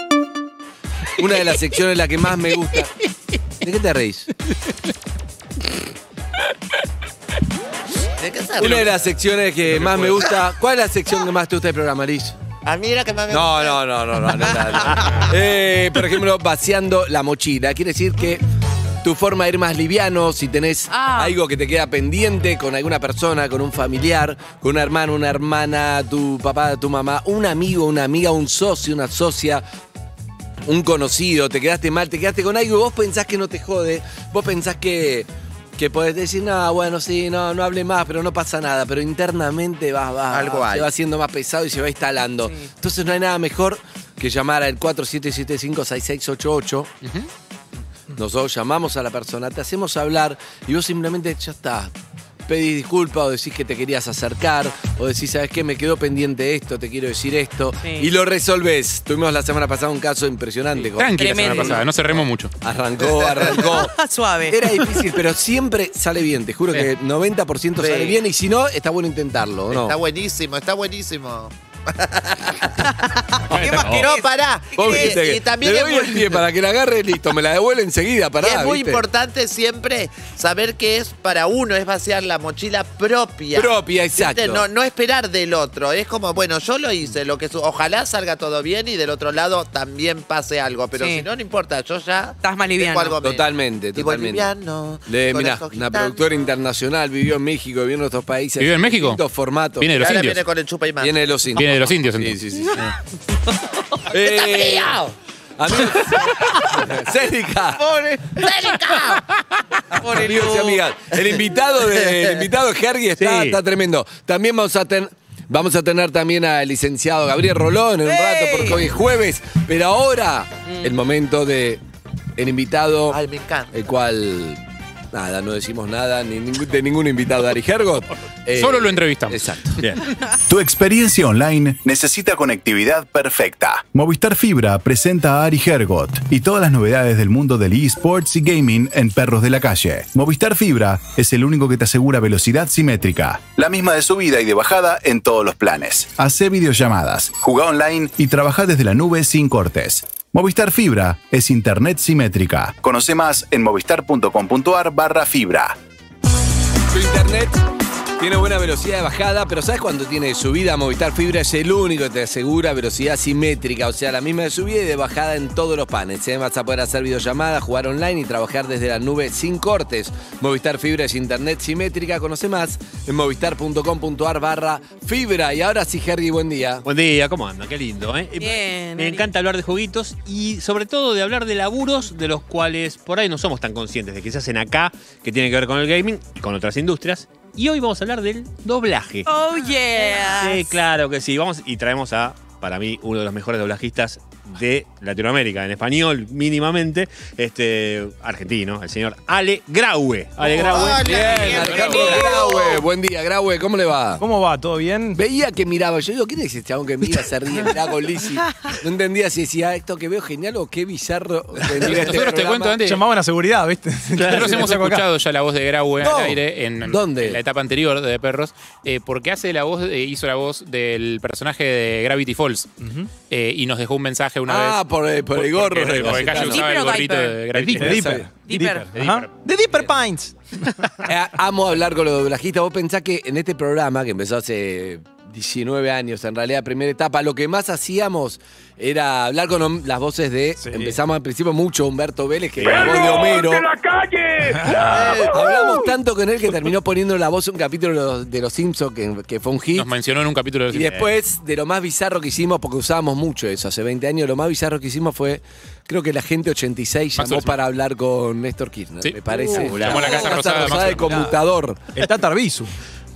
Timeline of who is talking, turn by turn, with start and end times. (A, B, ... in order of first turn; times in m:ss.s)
0:01.2-0:02.9 A
0:03.6-0:04.3 A
0:08.2-0:09.1 B
0:08.6-0:12.4 A
0:09.7-0:10.3 C
0:12.6-0:13.8 B
0:13.3-0:18.4 A
0:14.5-0:15.3 D
0:19.0-0:29.6 A
0:20.9-0:21.4 D
0:30.6-0:46.9 A
0:40.3-0:40.9 B
0:42.4-0:42.7 D
0:48.1-0:51.9 A
0:52.5-1:03.9 A
0:57.8-0:58.1 D
1:00.7-1:02.5 E
1:01.2-1:01.8 D
1:03.4-1:05.1 D
1:04.5-1:10.0 A
1:07.8-1:08.2 B
1:09.7-1:12.9 B
1:13.0-1:15.2 D
1:13.5-1:14.1 C
1:13.7-1:16.4 B
1:14.7-1:19.0 A
1:18.4-1:36.2 B
1:23.5-1:24.6 A
1:30.9-1:31.3 D
1:32.4-1:33.2 D
1:33.2-1:34.5 A
1:35.1-1:40.0 A
1:38.6-1:39.2 E
1:39.8-1:40.4 E
1:40.0-1:41.6 B
1:41.0-1:42.9 A
1:41.6-1:42.9 E
1:44.1-1:45.0 A
1:44.1-1:45.1 B
1:45.6-1:47.9 A
1:46.2-1:46.6 B
1:47.9-1:49.2 B
1:47.9-1:48.4 D
1:49.9-1:50.8 D
1:50.1-2:01.8 A
1:53.2-1:53.6 C
1:58.0-1:58.9 D
2:00.6-2:01.0 D
2:02.4-2:03.2 A
2:03.1-2:03.7 B
2:03.7-2:04.6 A
2:05.1-2:09.8 A
2:08.5-2:10.0 E
2:10.5-2:35.8 F
2:36.9-2:37.6 A
2:38.2-2:56.8 A
2:56.8-3:09.3 C
2:58.4-2:59.3 D
3:09.2-3:10.8 D
3:10.0-3:21.7 C
3:20.6-3:22.8 B
3:20.7-3:24.2 A
3:21.1-3:22.3 E
3:24.2-3:25.2 G
3:25.1-3:32.8 A
3:31.7-3:33.0 E
3:32.8-3:35.0 G
3:34.2-3:42.7 E
3:36.0-3:37.4 A
3:42.8-3:43.1 G
3:43.3-3:44.8 E
3:44.5-3:46.7 A
3:45.3-3:48.2 E
3:46.0-3:46.5 C
3:46.4-3:47.5 D
3:47.6-3:48.3 A
3:47.7-3:50.7 G
3:48.4-3:48.9 D
3:48.9-3:49.3 E
3:51.0-4:03.8 A
4:00.6-4:01.0 G
4:02.6-4:03.1 C
4:04.4-4:05.2 G
4:04.8-4:05.3 B
4:05.2-4:09.9 A
4:09.7-4:11.1 E
4:10.7-4:21.8 A
4:17.2-4:17.6 E
4:19.0-4:21.4 E
4:19.4-4:21.2 C
4:21.9-4:22.7 G